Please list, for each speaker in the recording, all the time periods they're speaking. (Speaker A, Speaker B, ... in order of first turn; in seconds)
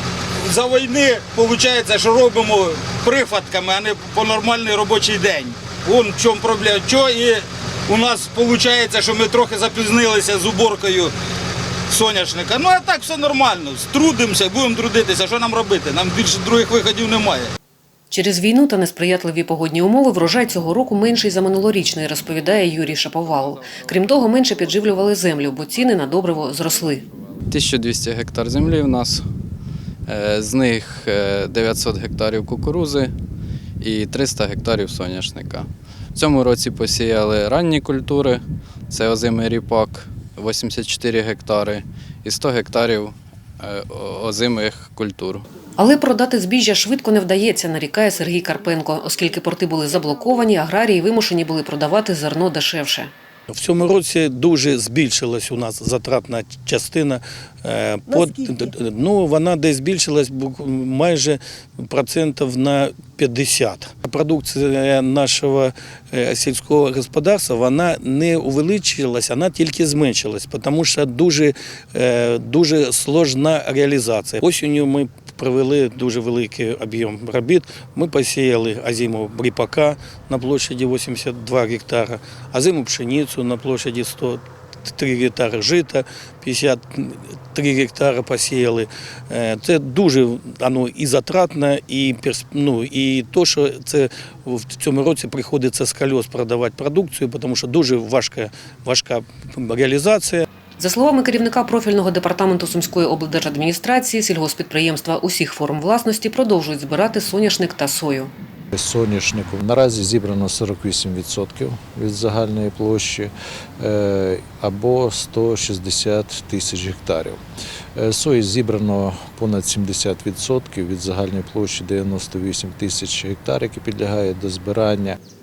Speaker A: 0.5-11.1, 11.9-17.5
Speaker B: 18.1-27.0, 45.8-53.1, 100.8-108.3
Speaker C: 27.5-29.3, 30.1-33.1, 33.8-45.5
Speaker D: 53.5-100.5
Speaker E: 108.7-117.4, 118.0-125.2